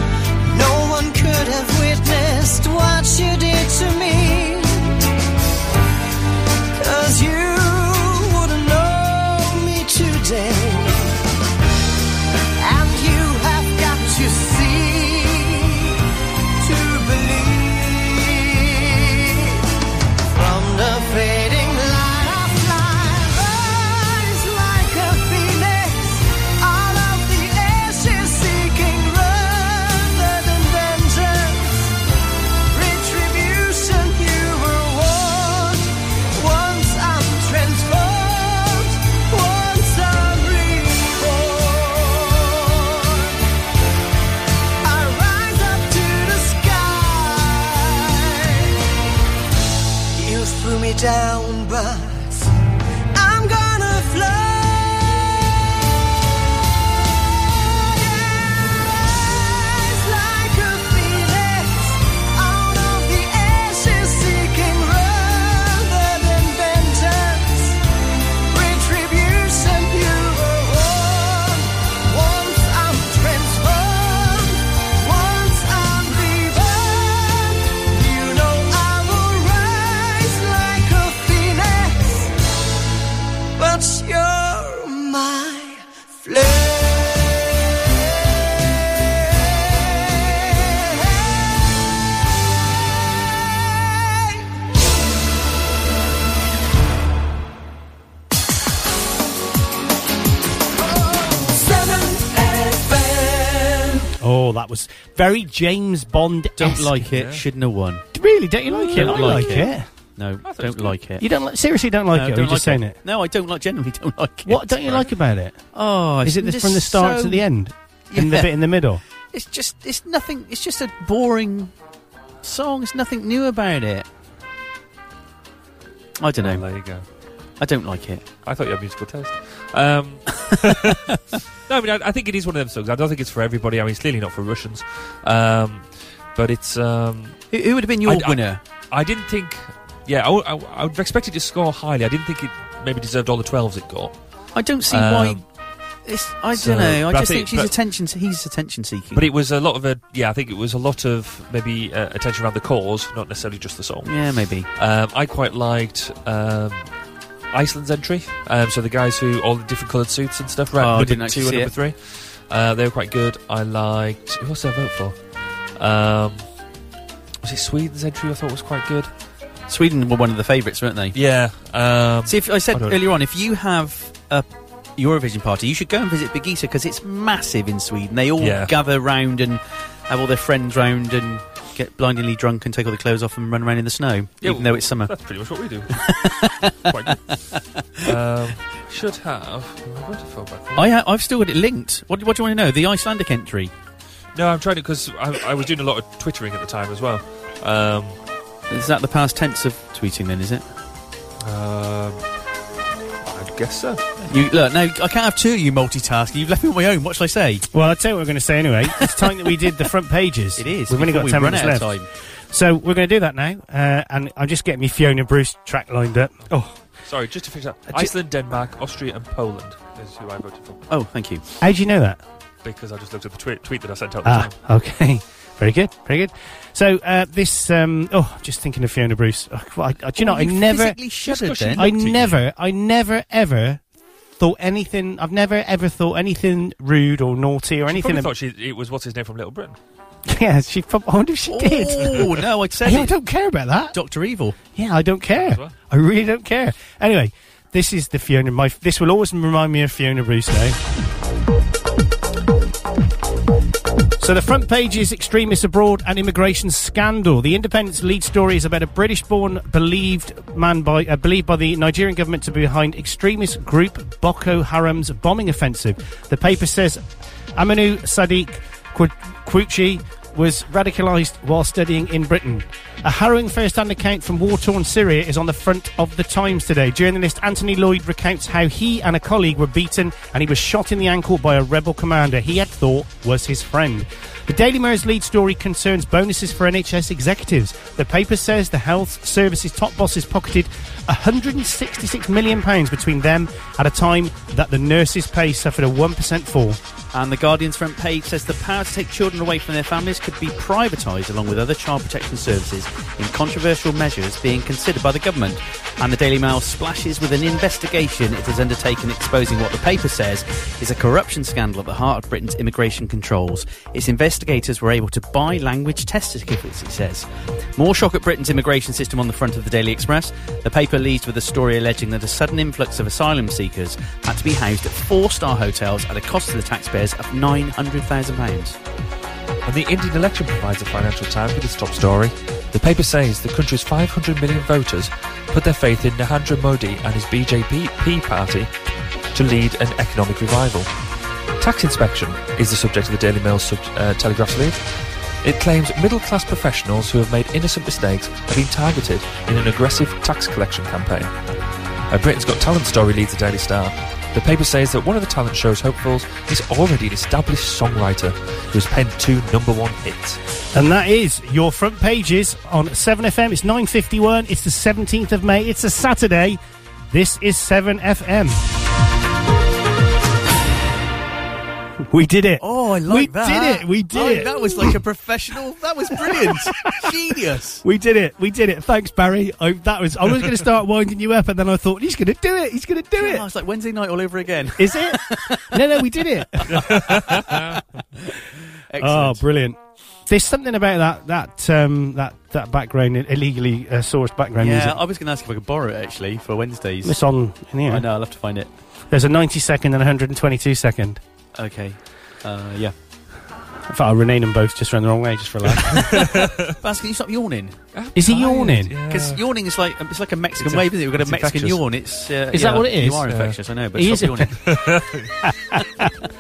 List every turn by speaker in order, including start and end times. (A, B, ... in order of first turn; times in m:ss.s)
0:00.5-0:05.0 A
0:06.8-0:11.2 A
0:12.6-0:16.0 A
0:16.6-0:19.6 A
0:20.3-0:31.9 A
0:32.7-0:43.4 A
0:44.8-0:48.8 A
0:50.1-0:52.5 A
0:53.1-0:55.7 A
0:57.2-1:07.8 A
1:08.5-1:22.4 A
1:23.6-1:28.0 A
1:28.6-1:31.6 A
1:33.2-1:34.5 A
1:40.8-1:44.0 A
1:44.2-1:47.0 B
1:46.6-1:48.0 C
1:47.1-1:47.4 D
1:48.1-1:49.9 B
1:48.8-1:49.7 D
1:48.9-1:51.2 C
1:50.4-1:51.0 D
1:51.2-1:53.0 B
1:52.1-1:54.8 C
1:54.4-1:55.6 B
1:55.7-1:57.4 C
1:56.2-1:59.0 B
1:58.1-1:58.6 C
1:59.3-2:01.7 C
2:02.4-2:04.1 C
2:06.2-2:06.6 C
2:06.4-2:07.0 D
2:07.6-2:08.2 C
2:08.4-2:17.4 D
2:10.5-2:11.2 C
2:17.5-2:18.6 C
2:18.1-2:24.1 D
2:24.6-2:25.4 C
2:24.9-2:25.4 D
2:26.1-2:29.2 C
2:26.6-2:27.7 D
2:29.1-2:34.1 D
2:34.0-2:34.7 C
2:34.8-2:36.9 D
2:37.5-2:45.2 D
2:40.8-2:41.7 C
2:45.8-2:46.4 D
2:47.4-2:49.1 D
2:49.7-2:51.2 C
2:51.1-2:53.1 D
2:52.3-2:54.5 C
2:55.0-3:05.1 C
2:58.4-2:58.8 D
3:04.4-3:06.1 D
3:06.0-3:08.1 C
3:06.8-3:07.3 D
3:08.0-3:10.9 D
3:10.8-3:13.7 C
3:14.4-3:18.2 D
3:18.7-3:20.7 C
3:21.4-3:22.2 D
3:23.2-3:24.2 D
3:24.3-3:27.7 C
3:27.7-3:36.7 B
3:30.6-3:32.1 C
3:37.1-3:40.8 D
3:40.9-3:41.4 C
3:41.6-3:42.2 B
3:42.6-3:44.5 D
3:44.2-3:51.0 B
3:50.2-3:51.9 C
3:51.2-3:52.4 D
3:51.8-3:53.8 B
3:54.4-3:58.3 B
3:57.9-3:59.8 D
4:00.3-4:02.3 B
4:01.5-4:03.2 C
4:02.8-4:04.0 B
4:03.9-4:04.6 C
4:04.8-4:10.8 B
4:05.3-4:05.8 D
4:14.2-4:27.0 B
4:27.6-4:56.8 B
4:57.1-5:17.3 C
5:17.8-5:28.8 C
5:29.7-5:38.7 D
5:39.3-5:40.9 D
5:41.6-5:44.8 D
5:45.4-5:51.3 D
5:52.1-6:00.4 D
6:00.7-6:08.6 B
6:12.1-6:15.0 B
6:12.6-6:17.8 C
6:16.2-6:17.1 B
6:17.8-6:23.4 B
6:23.2-6:25.8 C
6:24.8-6:27.8 B
6:26.6-6:27.6 C
6:26.7-6:27.8 D
6:28.9-6:29.4 C
6:29.0-6:35.0 B
6:34.6-6:37.1 C
6:37.0-6:38.0 B
6:37.9-6:38.7 C
6:39.1-6:41.2 B
6:41.6-6:42.9 C
6:43.9-6:46.5 B
6:45.8-6:46.8 D
6:46.8-6:47.8 C
6:47.9-6:49.4 D
6:48.1-6:49.0 B
6:49.1-6:54.6 C
6:50.6-6:51.8 D
6:52.5-6:53.3 B
6:53.3-6:53.6 D
6:54.0-6:54.6 B
6:54.6-6:55.3 D
6:55.4-6:56.1 B